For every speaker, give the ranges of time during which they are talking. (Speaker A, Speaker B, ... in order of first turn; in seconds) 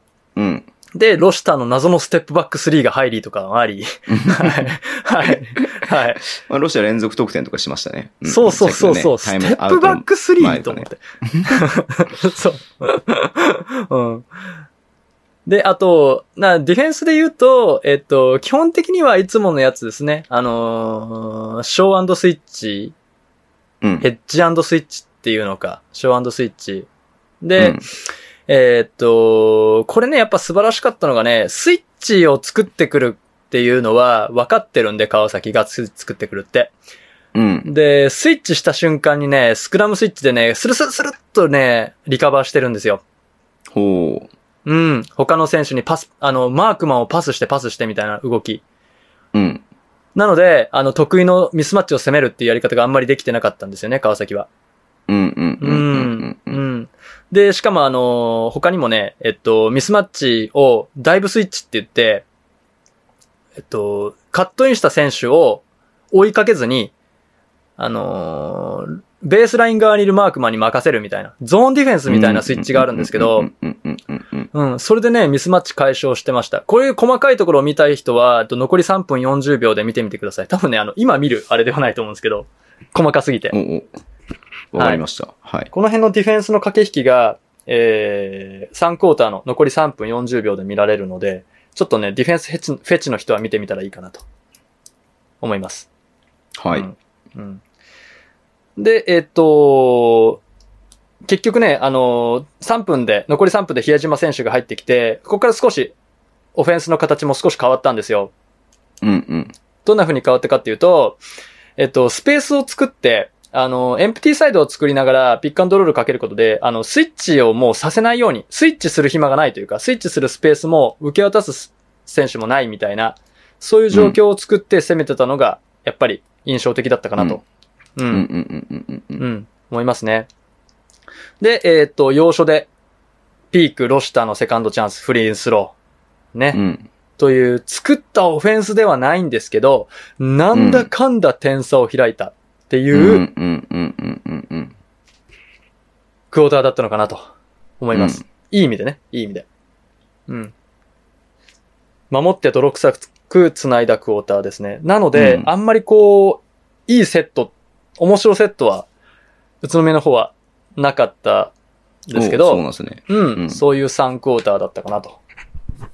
Speaker A: 0.3-0.7, 4.1-4.7, 5.7-11.6, 27.6-27.8, 37.3-37.7, 43.7-44.3, 49.3-49.6, 55.1-56.6, 72.1-74.5, 83.5-83.9, 84.7-85.7, 96.6-96.9, 109.0-109.5, 123.9-124.2, 128.1-129.2, 136.5-136.9, 140.5-140.9, 142.9-144.7, 147.9-148.2, 155.1-155.5, 162.1-163.6
Speaker B: 0.9-6.2, 8.2-14.3, 15.4-22.9, 24.0-26.9, 27.4-27.8, 28.5-36.7, 37.6-43.0, 44.6-48.6, 50.1-54.5, 55.6-62.2, 63.6-66.9, 67.8-73.5, 74.5-83.5, 85.7-94.2, 95.4-95.9, 96.7-97.6, 98.8-100.4, 101.3-105.9, 106.5-108.3, 109.8-111.2, 111.8-127.4, 128.0-128.2, 129.2-130.3, 131.4-132.7, 133.5-135.7, 136.3-136.6, 137.2-143.2, 146.3-147.2, 147.8-149.4, 150.3-150.5, 152.1-158.9, 159.6-161.5, 162.1-165.2